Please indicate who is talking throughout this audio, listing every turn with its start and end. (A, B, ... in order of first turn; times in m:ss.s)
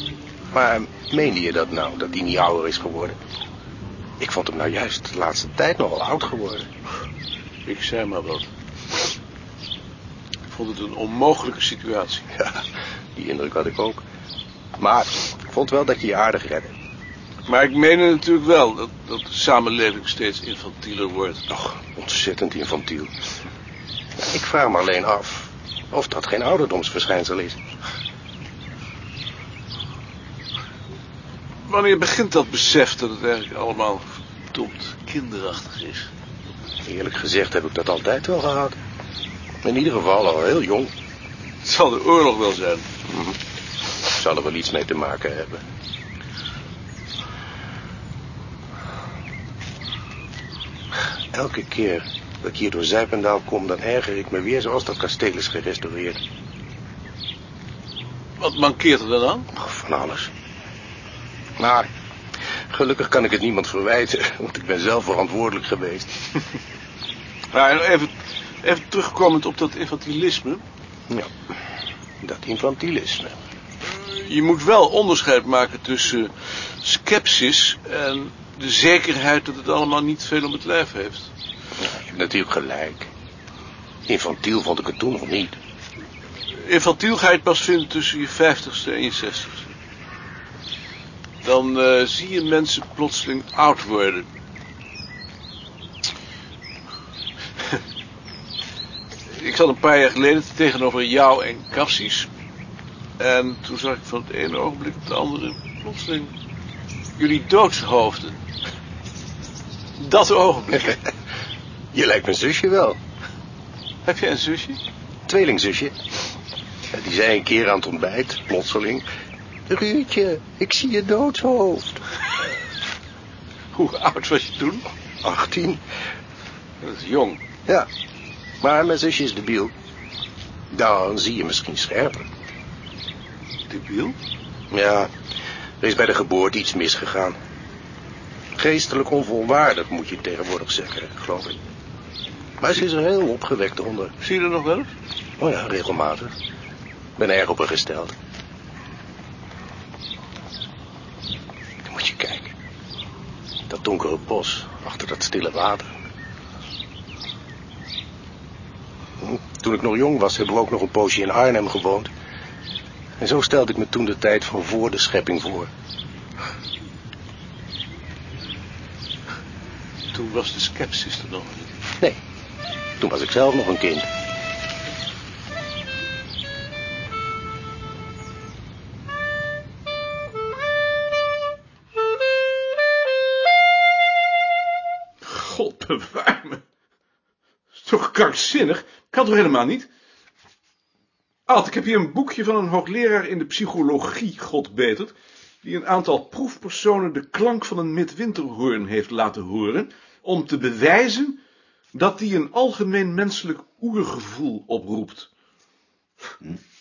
0:00.5-0:03.2 A
0:04.2-0:06.7 A
0:07.6-0:08.5 B
0:10.5-0:12.3 B
0:12.4-0:12.6 A
0:13.1-0:14.0 A
0:14.8-0:16.7 A
0:17.5-0:21.4 B
0:21.5-0:23.1 A
0:24.2-0:27.6 A
0:31.6-0:36.1 B
0:36.8-0:38.8 A
0:39.6-0:40.9 A
0:41.6-0:42.9 B
0:43.1-0:43.4 A
0:44.2-0:45.6 A
0:51.3-0:56.2 A
0:58.4-0:59.5 B
0:59.5-1:00.3 A
1:01.6-1:01.9 A
1:02.7-1:06.1 A
1:07.5-1:10.6 B
1:12.2-1:13.4 A
1:13.8-1:21.3 B
1:21.8-1:23.1 A
1:24.1-1:25.6 A
1:26.5-1:29.7 B
1:31.4-1:34.3 B
1:39.3-1:42.3 B
1:43.2-1:46.4 B
1:47.2-1:48.4 B
1:50.0-1:51.0 B
1:51.9-1:53.0 A
1:54.0-1:54.8 B
1:55.3-1:56.0 A
1:56.9-1:59.0 A
1:59.7-2:02.0 A
2:03.7-2:04.8 B
2:05.2-2:05.8 A
2:06.8-2:07.4 B
2:08.6-2:09.7 A
2:10.7-2:12.3 A
2:13.7-2:14.2 B
2:14.7-2:15.1 A
2:15.8-2:17.4 A
2:18.6-2:21.6 A
2:22.6-2:24.1 A
2:24.2-2:24.9 B
2:25.4-2:26.3 A
2:27.2-2:28.1 A
2:31.9-2:32.5 A
2:33.7-2:35.9 A
2:39.2-2:42.1 A
2:43.2-2:45.7 A
2:50.1-2:51.8 B
2:53.0-2:54.1 A
3:05.2-3:06.6 B
3:07.7-3:09.9 B
3:11.5-3:21.4 B
3:21.9-3:25.3 B